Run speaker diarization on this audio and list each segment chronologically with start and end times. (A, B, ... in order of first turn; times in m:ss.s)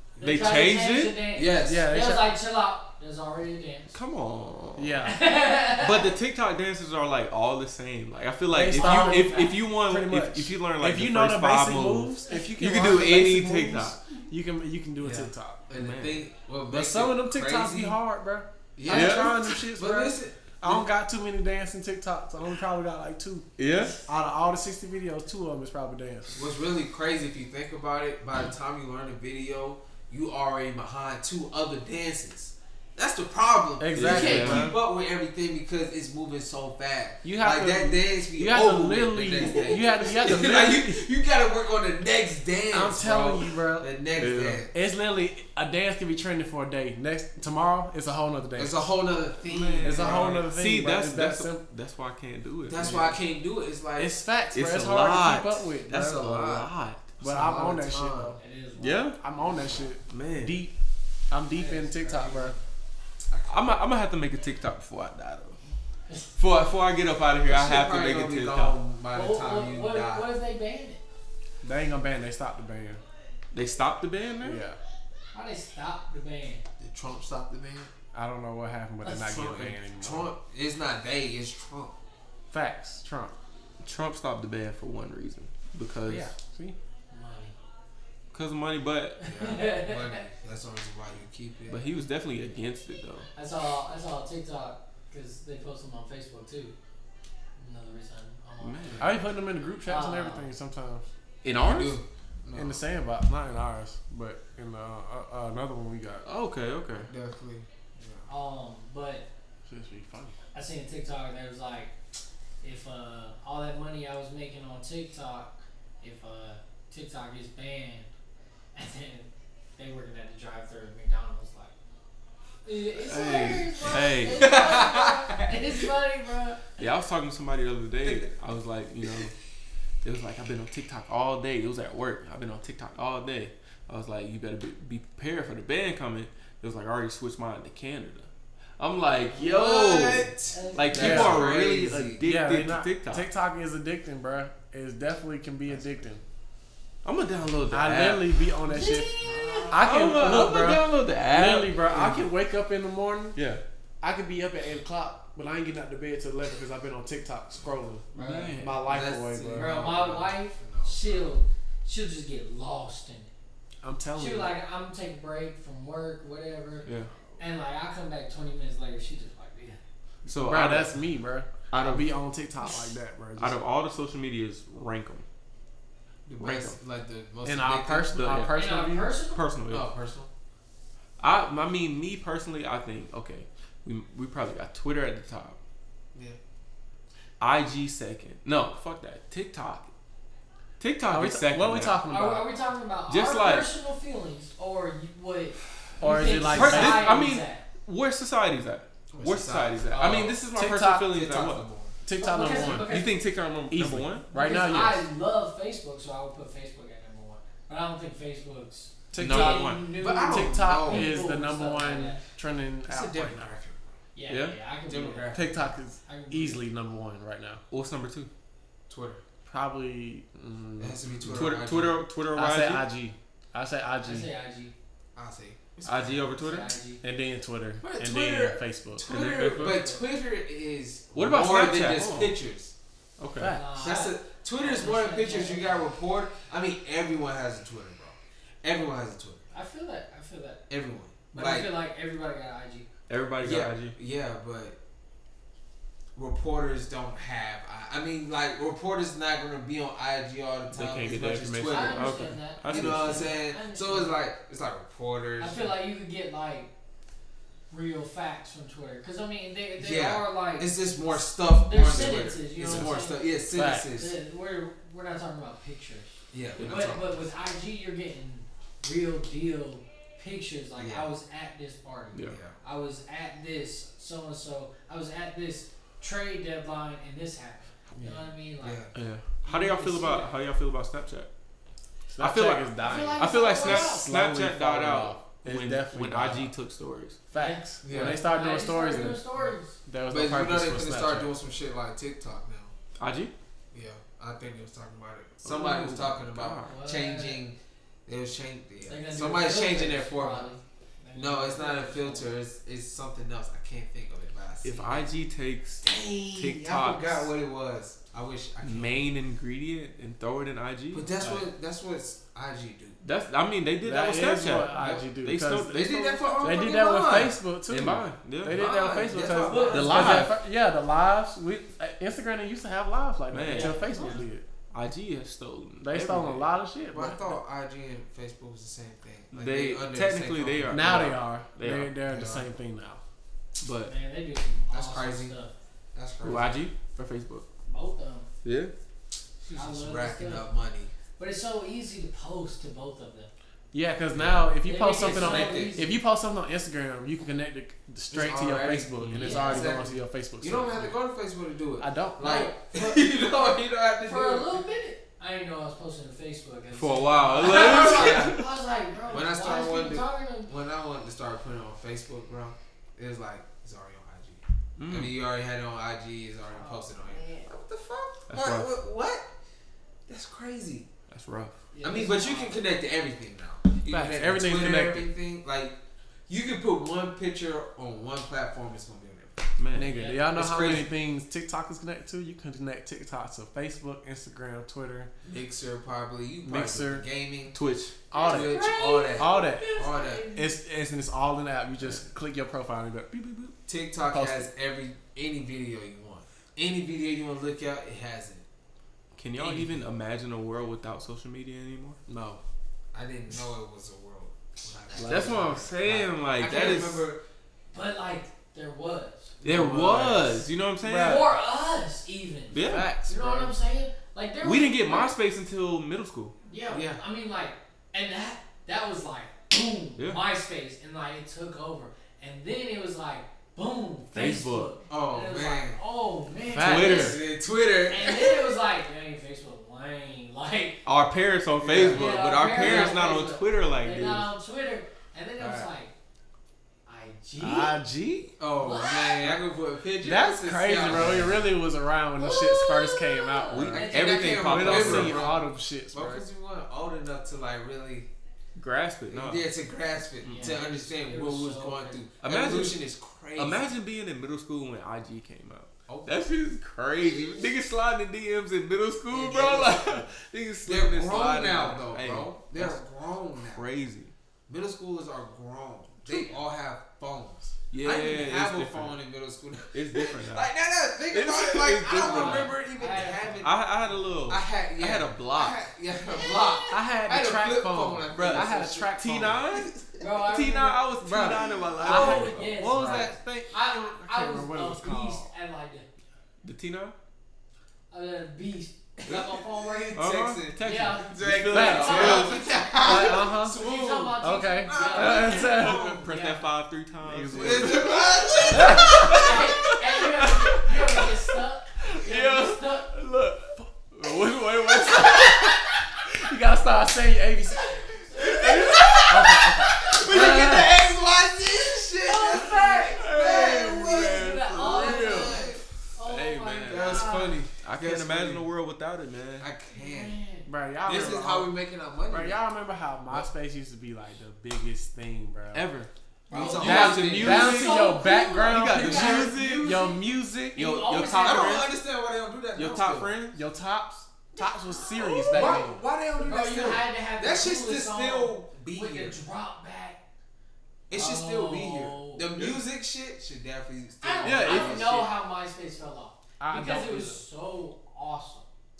0:00.2-0:03.9 A
0:00.2-0:01.2 B
0:01.3-0:01.9 C
0:01.6-0:02.3 D
0:03.9-0:05.0 B
0:04.8-0:05.3 D
0:05.0-0:06.1 A
0:05.7-0:14.0 B
0:08.5-0:15.6 D
0:08.7-0:09.6 A
0:15.0-0:18.0 C
0:15.7-0:16.2 B
0:16.7-0:23.5 D
0:18.8-0:20.8 C
0:18.9-0:19.5 B
0:23.6-0:24.0 B
0:24.0-0:26.5 D
0:26.3-0:44.7 C
0:33.8-0:34.8 D
0:33.9-0:34.8 B
0:37.2-0:41.0 D
0:42.7-0:43.9 D
0:44.2-0:44.6 B
0:44.7-0:48.9 D
0:48.5-0:50.5 C
0:49.4-0:53.2 B
0:49.8-0:51.6 D
0:52.6-0:54.2 C
0:54.0-0:56.2 D
0:54.5-0:57.1 B
0:55.9-0:58.4 C
0:57.2-0:58.4 D
0:58.4-0:59.1 A
0:58.8-0:59.2 B
0:59.2-1:00.7 D
1:00.1-1:00.6 B
1:01.3-1:02.5 D
1:01.5-1:02.6 A
1:03.3-1:03.6 C
1:03.5-1:05.6 B
1:06.1-1:06.3 A
1:06.4-1:08.8 B
1:07.4-1:10.3 C
1:09.1-1:11.0 A
1:11.6-1:13.0 D
1:13.5-1:14.6 B
1:14.4-1:14.8 D
1:15.3-1:16.6 A
1:16.8-1:17.9 C
1:18.1-1:20.3 D
1:19.0-1:22.0 C
1:22.5-1:23.4 D
1:23.8-1:26.3 B
1:26.0-1:26.8 D
1:27.1-1:27.5 A
1:28.3-1:29.2 B
1:29.2-1:30.2 A
1:29.2-1:31.9 C
1:31.7-1:33.3 B
1:33.4-1:36.7 A
1:37.6-1:39.0 A
1:38.6-1:39.2 B
1:39.0-1:41.0 D
1:39.8-1:40.5 A
1:41.4-1:42.0 B
1:41.6-1:42.8 C
1:42.5-1:46.2 D
1:46.2-1:47.1 B
1:47.0-1:48.3 C
1:48.3-1:49.2 A
1:49.6-1:50.4 D
1:50.5-1:51.9 A
1:52.6-1:58.1 A
1:58.7-2:01.7 A
2:02.6-2:06.6 A
2:03.0-2:05.0 B
2:03.9-2:05.8 C
2:06.8-2:09.3 B
2:08.0-2:08.3 C
2:10.0-2:23.3 B
2:19.3-2:22.2 C
2:20.5-2:21.3 A
2:20.9-2:21.5 D
2:22.2-2:26.2 D
2:27.0-2:28.8 B
2:27.7-2:29.1 D
2:28.7-2:29.9 A
2:29.2-2:30.6 C
2:29.7-2:33.4 D
2:29.8-2:32.3 B
2:33.3-2:33.6 B
2:34.0-2:38.1 D
2:38.1-2:38.6 A
2:38.1-2:38.8 B
2:38.6-2:39.9 D
2:38.8-2:41.2 C
2:39.5-2:43.3 A
2:43.8-2:44.5 D
2:44.2-2:46.8 A
2:46.8-2:47.1 B
2:47.4-2:49.8 A
2:50.2-2:51.0 B
2:50.3-2:53.6 D
2:51.7-2:52.1 B
2:53.4-2:55.2 B
2:56.2-2:58.4 C
2:56.4-2:56.8 B
2:57.4-2:59.1 D
2:58.2-2:58.6 B
2:58.5-2:59.4 A
2:59.3-2:59.9 B
2:59.7-3:00.3 C
3:01.2-3:05.6 B
3:07.4-3:09.9 B
3:10.8-3:12.0 B
3:11.1-3:12.5 D
3:12.1-3:17.6 A
3:13.1-3:13.7 B
3:16.0-3:17.3 D
3:16.2-3:21.6 B
3:19.1-3:20.4 C
3:20.5-3:21.1 D
3:21.0-3:22.0 C
3:22.0-3:23.1 D
3:22.2-3:23.1 A
3:22.6-3:24.2 B
3:23.7-3:25.0 D
3:24.3-3:32.2 A
3:29.1-3:33.4 D
3:29.1-3:29.8 B
3:29.7-3:31.2 C
3:32.8-3:33.8 C
3:34.1-3:35.4 A
3:34.3-3:34.5 B
3:34.9-3:35.7 C
3:35.3-3:37.6 D
3:36.0-3:36.6 A
3:37.7-3:38.3 B
3:38.9-3:39.2 C
3:39.4-3:41.0 D
3:40.8-3:42.0 C
3:41.3-3:42.9 B
3:42.3-3:44.3 D
3:44.0-3:44.7 A
3:45.1-3:46.3 C
3:45.8-3:46.7 B
3:46.3-3:47.0 A
3:47.0-3:49.1 D
3:47.8-3:52.7 C
3:49.0-3:49.9 B
3:51.1-3:52.3 B
3:53.2-3:53.5 B
3:53.4-3:53.8 D
3:53.5-3:55.9 A
3:53.8-3:59.4 C
3:59.5-4:00.6 A
4:00.7-4:01.7 C
4:01.3-4:02.9 A
4:03.1-4:03.9 B
4:03.4-4:04.8 C
4:06.1-4:12.1 C
4:10.7-4:12.2 D
4:11.1-4:13.3 B
4:11.6-4:14.2 A
4:12.7-4:15.7 C
4:15.4-4:16.7 A
4:17.7-4:20.8 A
4:19.8-4:24.1 C
4:21.5-4:23.3 A
4:22.6-4:22.9 D
4:23.5-4:23.9 D
4:23.9-4:38.8 A
4:26.3-4:27.1 C
4:26.6-4:27.0 B
4:30.8-4:31.1 C
4:32.2-4:32.6 C
4:38.0-4:38.2 D
4:38.6-4:38.9 C
4:38.9-4:41.3 B
4:39.4-4:40.4 A
4:42.1-4:46.5 D
4:42.2-4:47.2 B
4:42.8-4:44.0 A
4:47.3-4:49.2 D
4:47.4-4:49.8 A
4:47.8-4:48.2 C
4:49.8-4:51.3 D
4:50.1-4:52.7 C
4:53.0-4:53.3 B
4:53.7-5:00.6 C
4:55.4-4:56.8 B
4:56.7-4:57.4 A
4:58.9-5:02.3 A
5:01.1-5:05.1 C
5:04.6-5:07.2 B
5:05.8-5:09.0 C
5:08.6-5:11.4 B
5:10.9-5:13.0 C
5:13.0-5:16.7 B
5:13.8-5:15.8 D
5:14.7-5:15.1 C
5:15.6-5:17.4 C
5:16.4-5:24.4 D
5:17.7-5:18.6 B
5:18.4-5:20.2 C
5:19.4-5:20.3 A
5:19.7-5:20.4 B
5:23.3-5:23.8 B
5:23.5-5:24.2 A
5:24.7-5:26.2 B
5:25.8-5:27.2 D
5:25.9-5:31.0 C
5:29.3-5:32.0 B
5:30.7-5:33.0 D
5:32.0-5:32.5 C
5:33.6-5:33.9 B
5:33.8-5:35.5 A
5:34.7-5:35.4 C
5:35.9-5:36.6 C
5:36.2-5:37.4 B
5:37.7-5:38.3 A
5:38.4-5:38.7 B
5:39.4-5:40.5 A
5:39.4-5:40.9 C
5:41.2-5:43.3 A
5:43.7-5:50.9 D
5:44.1-5:45.8 C
5:44.6-5:46.0 A
5:48.1-5:54.6 C
5:49.1-5:49.8 A
5:51.8-5:52.4 D
5:52.2-5:53.3 A
5:54.0-6:00.5 A
5:56.7-5:58.4 B
5:57.4-5:58.4 C
5:59.1-6:09.3 C
6:04.8-6:05.1 B
6:06.5-6:07.5 A
6:08.3-6:08.7 B
6:10.1-6:10.9 C
6:11.1-6:11.5 B
6:11.7-6:12.6 A
6:11.8-6:15.8 C
6:13.9-6:15.1 D
6:16.3-6:19.4 C
6:19.6-6:19.9 B
6:19.7-6:25.1 D
6:19.9-6:20.3 A
6:20.3-6:20.9 C
6:20.4-6:20.8 B
6:25.2-6:27.6 C
6:26.4-6:27.0 D
6:27.5-6:28.0 B
6:28.1-6:28.6 D
6:28.1-6:30.5 A
6:28.2-6:30.3 C
6:29.2-6:29.8 D
6:30.3-6:33.6 D
6:33.7-6:38.4 C
6:34.1-6:34.5 D
6:39.2-6:42.0 B
6:39.4-6:39.7 D
6:42.1-6:42.4 D
6:42.9-6:47.2 C
6:44.9-6:45.7 D
6:45.0-6:47.0 B
6:47.7-6:49.3 A
6:49.4-6:51.3 B
6:49.4-6:51.3 D
6:49.5-6:50.1 C
6:50.9-6:55.1 A
6:52.5-6:52.9 B
6:52.6-6:53.4 D
6:52.6-6:53.4 C
6:54.4-6:56.4 B
6:56.4-7:07.2 A
6:56.7-6:57.0 C
7:04.1-7:04.7 B
7:04.9-7:05.8 C
7:06.5-7:07.2 B
7:06.6-7:08.5 C
7:07.9-7:10.8 A
7:10.8-7:14.3 B
7:11.6-7:13.0 C
7:11.9-7:15.9 A
7:15.4-7:15.7 C
7:16.8-7:17.8 A
7:17.4-7:18.3 D
7:18.4-7:21.5 C
7:18.6-7:19.3 A
7:20.0-7:26.2 D
7:20.8-7:21.4 B
7:22.2-7:24.4 A
7:23.5-7:25.3 B
7:23.7-7:28.1 C
7:28.6-7:29.5 B
7:29.1-7:33.7 C
7:30.2-7:30.6 B
7:30.3-7:32.0 A
7:32.2-7:32.8 B
7:33.4-7:42.8 B
7:35.9-7:36.2 C
7:39.1-7:40.1 C
7:40.6-7:43.6 C
7:43.4-7:44.1 B
7:44.5-7:53.6 C
7:47.7-7:49.0 B
7:49.7-7:50.5 B
7:51.1-7:52.5 B
7:52.0-7:53.4 A
7:53.4-7:55.6 B
7:54.3-8:00.0 C
7:56.7-7:59.4 D
7:58.1-8:03.2 B
8:00.0-8:00.9 A
8:01.0-8:03.1 C
8:01.8-8:05.3 D
8:01.8-8:05.8 A
8:06.4-8:06.9 B
8:07.9-8:10.0 A
8:09.0-8:15.8 C
8:09.9-8:12.5 B
8:10.6-8:16.5 A
8:11.5-8:13.6 D
8:14.2-8:15.9 D
8:15.0-8:21.2 B
8:17.0-8:17.9 D
8:17.3-8:19.4 C
8:18.5-8:19.3 D
8:18.6-8:22.9 A
8:21.8-8:25.6 B
8:23.6-8:24.2 D
8:24.8-8:27.7 D
8:27.7-8:29.0 A
8:28.2-8:29.4 B
8:29.1-8:30.5 D
8:29.7-8:35.6 C
8:29.9-8:30.7 A
8:32.0-8:37.4 A
8:32.9-8:39.5 B
8:36.6-8:38.4 C
8:39.4-8:40.2 C
8:39.7-8:40.5 A
8:40.5-8:41.5 D
8:40.8-8:42.4 C
8:42.1-8:45.7 D
8:45.5-8:47.9 B
8:46.3-8:47.6 C
8:46.3-8:50.0 A
8:46.3-8:50.6 D
8:48.5-8:49.9 B
8:50.5-8:51.6 A
8:50.5-8:51.7 B
8:51.2-8:53.1 C
8:52.5-8:53.4 B
8:53.3-8:55.8 D
8:54.4-8:55.6 A
8:55.3-8:59.2 C
8:56.2-9:00.0 A
9:00.9-9:05.0 C
9:00.9-9:02.6 A
9:04.0-9:08.5 A
9:04.2-9:05.1 B
9:06.4-9:07.2 D